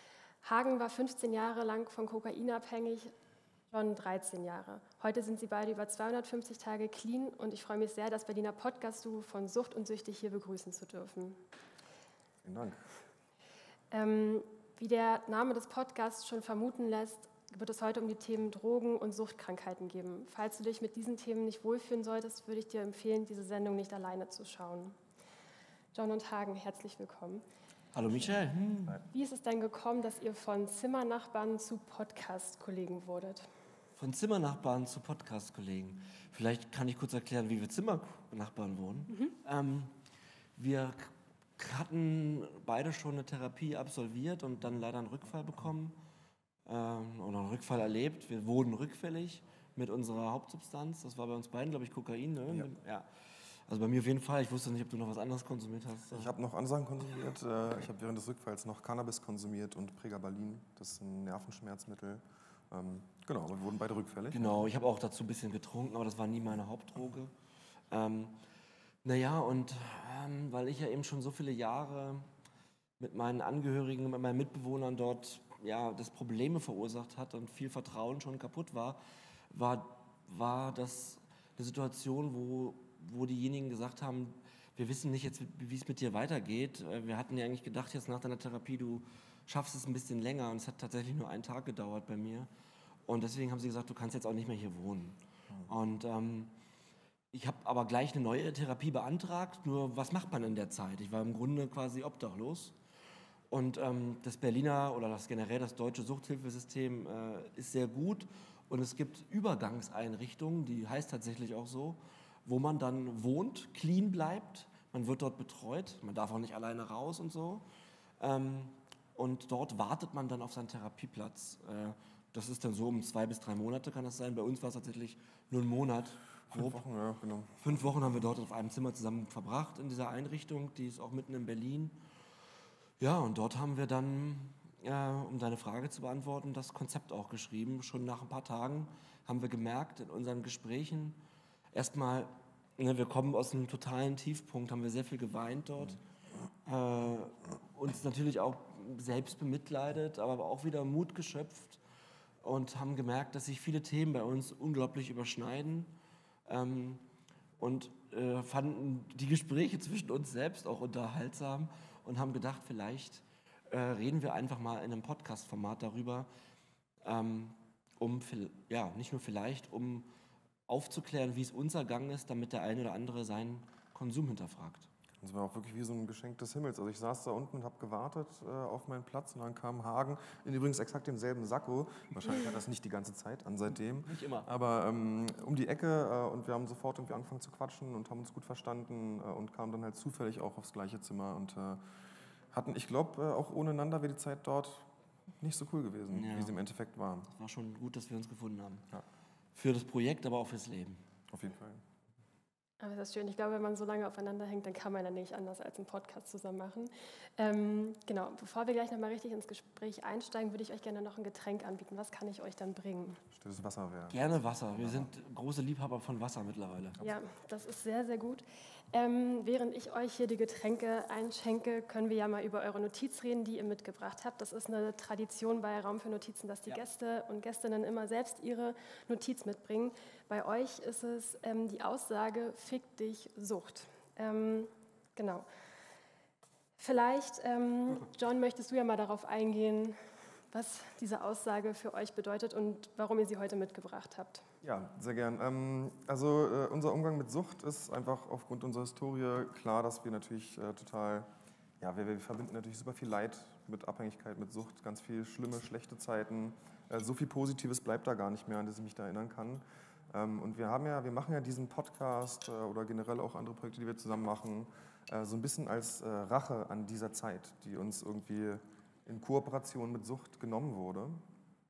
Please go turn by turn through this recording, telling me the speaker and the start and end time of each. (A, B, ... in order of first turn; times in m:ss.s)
0:00.4-0:03.1 A
0:03.7-0:11.4 A
0:12.4-0:12.9 B
0:13.9-0:25.0 A
0:25.9-0:27.4 A
0:27.9-0:29.0 C
0:28.2-0:29.0 B
0:29.1-0:33.5 A
0:34.0-0:39.9 C
0:40.6-0:46.0 C
0:46.6-0:53.1 C
0:53.7-0:56.3 C
0:56.1-1:04.7 B
1:04.3-1:07.3 C
1:07.9-1:08.4 C
1:09.0-1:12.3 C
1:13.0-1:19.0 C
1:19.5-1:32.5 C
1:33.1-1:36.5 C
1:37.3-1:42.7 C
1:43.5-1:57.6 C
1:58.2-2:06.8 C
2:06.5-2:07.8 B
2:07.6-2:12.0 C
2:13.0-2:21.2 C
2:21.7-2:26.0 C
2:26.6-2:31.8 C
2:32.4-2:35.9 C
2:36.4-2:37.0 C
2:37.6-2:46.3 C
2:47.0-2:50.1 C
2:50.7-2:54.9 C
2:55.2-3:11.8 B
3:04.0-3:04.5 C
3:12.5-3:14.9 B
3:15.4-3:17.3 B
3:16.1-3:16.5 C
3:17.3-3:18.9 C
3:19.5-3:21.0 C
3:21.3-3:21.8 B
3:22.8-3:33.2 A
3:33.3-3:35.1 B
3:34.1-3:37.0 C
3:37.0-3:55.4 A
3:56.8-4:00.0 A
4:00.5-4:04.4 A
4:04.6-4:11.3 B
4:11.8-4:31.2 B